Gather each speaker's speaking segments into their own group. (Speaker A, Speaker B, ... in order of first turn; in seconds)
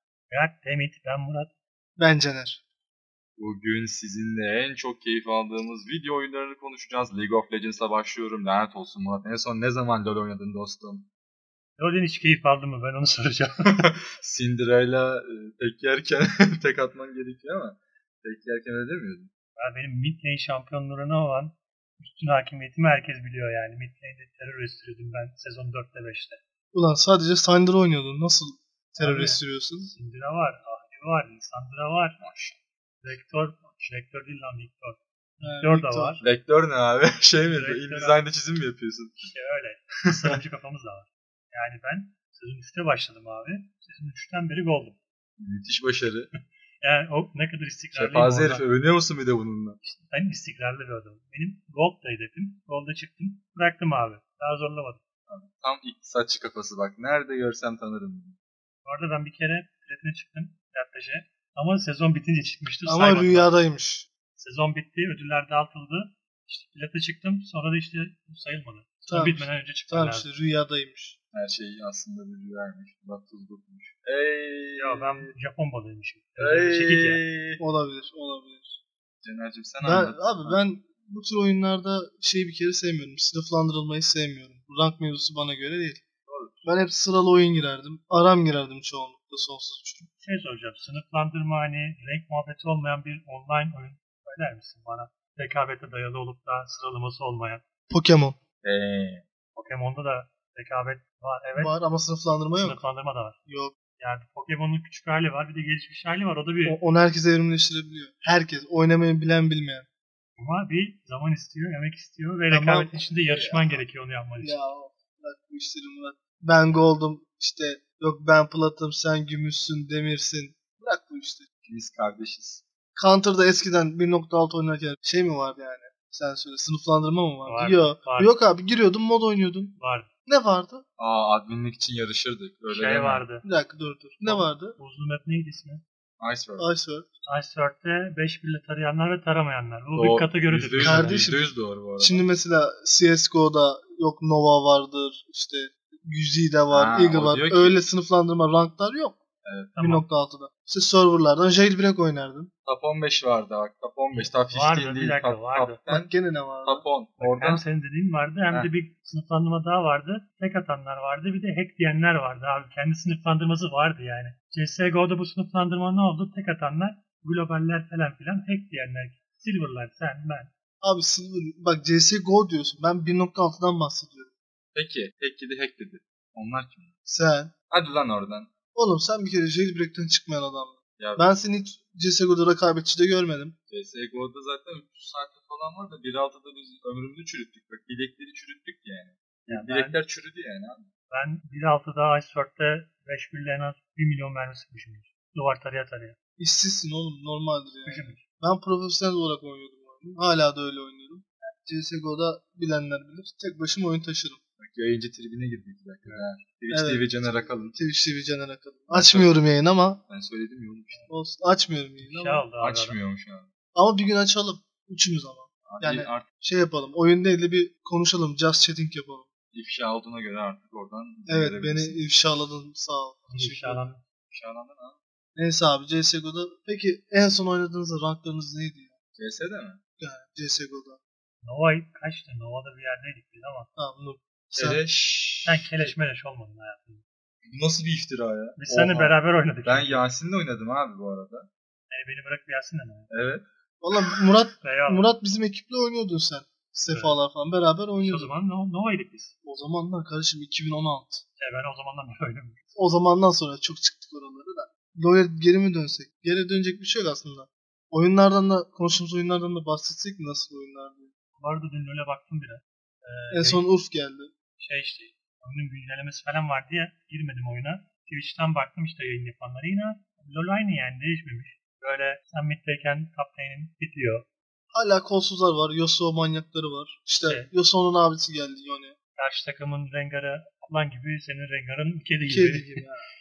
Speaker A: 0.3-1.5, 11.8-13.8, 19.6-26.4, 29.0-32.2, 33.0-36.2, 37.4-38.2, 39.3-45.0, 46.8-48.7, 50.0-55.0, 58.9-63.6, 64.3-70.3, 74.8-77.2, 90.2-97.6, 99.5-101.7, 102.6-103.4, 104.0-106.8, 110.4-114.7, 127.4-128.3, 129.8-130.1, 132.7-133.4, 134.2-135.8, 137.2-141.4, 149.8-150.0, 154.5-155.8, 157.2-170.5, 189.5-190.0, 191.1-196.2, 197.8-198.2, 206.0-206.3, 212.0-213.0, 223.3-224.0, 231.4-233.7, 235.4-237.0, 238.6-240.1, 241.9-243.1, 244.6-245.1, 246.9-247.2, 248.0-249.3, 251.4-252.6, 261.4-263.6, 264.6-274.3, 277.2-277.5, 279.1-282.9
Speaker B: 2.0-2.6, 26.7-29.9, 35.4-36.2, 62.9-64.1, 69.1-71.2, 77.6-78.8, 79.8-86.0, 86.7-90.1, 97.9-98.4, 101.6-102.8, 103.5-103.8, 106.7-109.9, 112.5-113.0, 114.4-121.5, 123.0-130.8, 133.4-134.8, 136.6-137.1, 140.8-149.2, 149.8-152.5, 155.9-156.8, 170.8-174.3, 177.1-177.5, 178.7-183.5, 196.4-204.4, 206.7-210.0, 211.1-212.4, 213.8-219.3, 221.3-223.8, 225.3-228.9, 230.0-231.0, 233.8-234.8, 243.8-248.3, 249.4-251.2, 252.8-261.1, 263.3-264.3, 274.7-279.0, 282.3-283.1
Speaker C: 3.4-11.1, 13.7-19.3, 32.2-32.6, 36.2-39.3, 40.1-40.3, 45.4-46.3, 47.9-49.8, 55.3-58.4, 71.3-75.3, 76.4-77.6, 79.2-80.6, 86.2-86.7, 98.6-99.2, 113.3-113.8, 121.6-122.6, 131.0-133.2, 136.2-136.7, 139.9-142.3, 146.7-147.8, 149.4-149.8, 152.7-156.1, 156.6-157.6, 174.8-176.9, 177.7-178.5, 181.0-181.3, 183.7-190.9, 204.6-207.8, 208.9-209.4, 210.1-211.1, 212.6-213.5, 215.7-216.2, 219.5-222.0, 224.3-225.0, 229.2-229.8, 234.5-235.9, 237.4-241.5, 243.1-243.4